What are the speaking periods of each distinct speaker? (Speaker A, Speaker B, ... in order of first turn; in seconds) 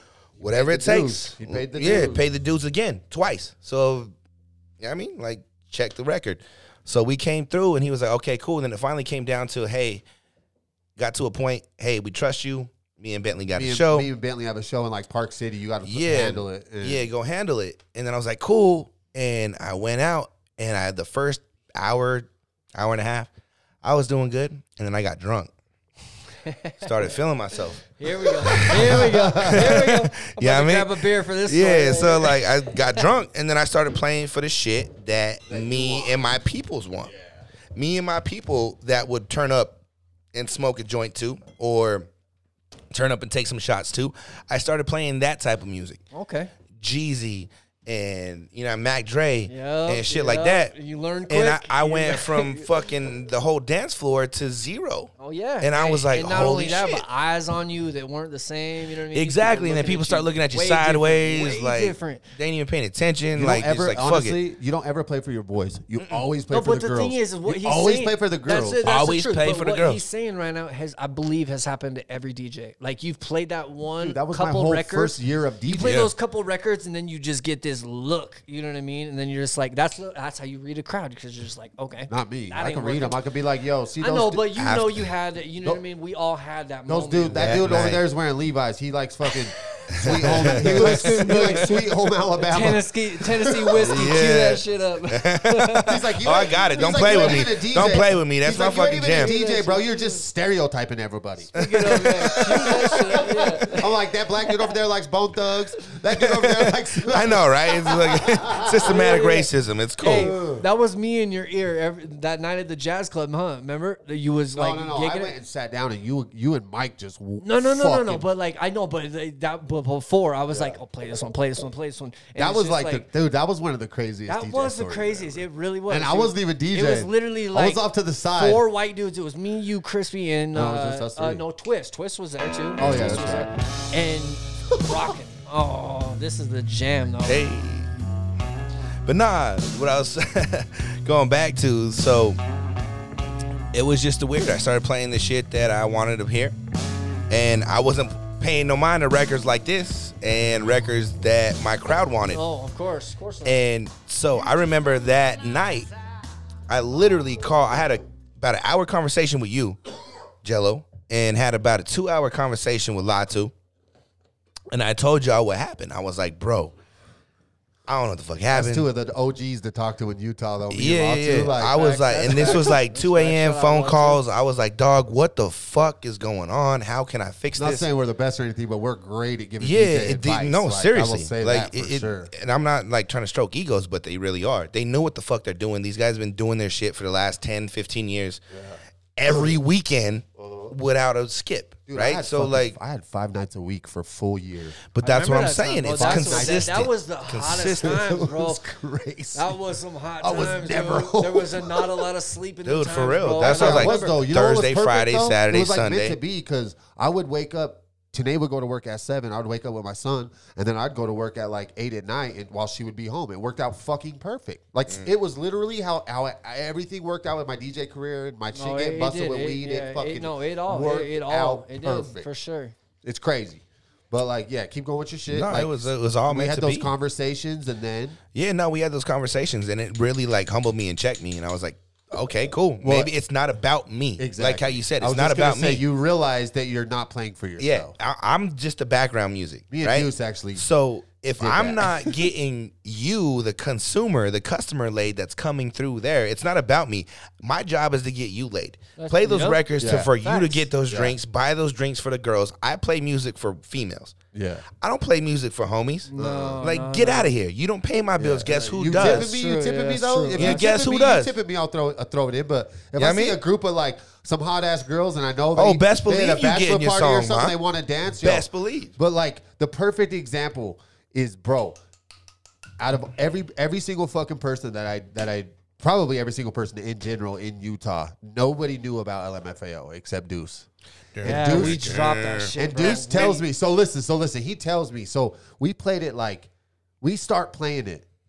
Speaker A: 0.4-4.1, 4.8-10.0, 11.0-14.1, 15.8-23.3, 23.8-25.5, 26.8-37.1, 37.7-39.8, 40.3-42.1, 42.9-46.0, 46.8-50.7, 51.3-57.0, 59.1-64.4, 68.8-70.0, 75.8-76.1, 84.5-85.0, 87.3-88.0, 89.9-91.6, 93.8-99.3, 101.5-103.2, 106.2-110.3, 137.2-138.1, 139.0-142.4, 143.7-146.5, 147.3-152.4, 153.4-155.9, 156.7-159.8, 160.4-163.5, 164.7-166.7, 167.9-168.9, 170.7-177.9, 179.6-188.4, 189.2-192.8, 194.9-198.2, 202.6-206.2, 225.3-226.9, 228.3-235.8, 237.6-254.2, 254.7-256.1, 256.6-259.3, 260.3-261.3, 262.9-263.4, 265.5-267.6, 268.2-268.9, 281.1-283.2
Speaker B: 0.4-2.2, 13.5-17.1, 28.4-29.9, 35.5-36.3, 63.3-68.8, 74.0-76.0, 82.1-84.5, 86.9-93.9, 95.8-109.0, 110.1-110.6, 114.5-118.2, 120.5-120.8, 122.3-128.6, 130.5-131.4, 132.8-133.5, 168.5-172.7, 177.6-182.3, 188.5-189.6, 190.4-190.7, 191.9-194.8, 195.9-196.7, 197.8-199.6, 200.2-202.1, 203.4-222.3, 223.0-228.2, 232.8-233.1, 234.2-237.9, 239.7-240.6, 241.4-242.2, 249.8-250.1, 250.9-251.1, 254.3-254.6, 256.1-256.6, 258.2-271.8, 272.8-280.7, 281.2-281.9, 282.6-286.5, 287.0-288.1
Speaker C: 26.4-27.1, 28.0-32.5, 46.1-46.5, 49.5-52.7, 55.2-62.2, 66.5-83.2, 84.0-87.5, 90.0-91.8, 92.4-95.9, 97.0-97.3, 99.2-100.2, 101.5-103.9, 108.8-115.3, 117.4-123.1, 124.3-137.4, 152.3-153.6, 171.7-174.2, 195.0-198.6, 199.3-204.2, 218.5-222.7, 249.0-249.6, 250.2-250.7, 256.1-257.3, 258.9-260.6, 281.2-283.4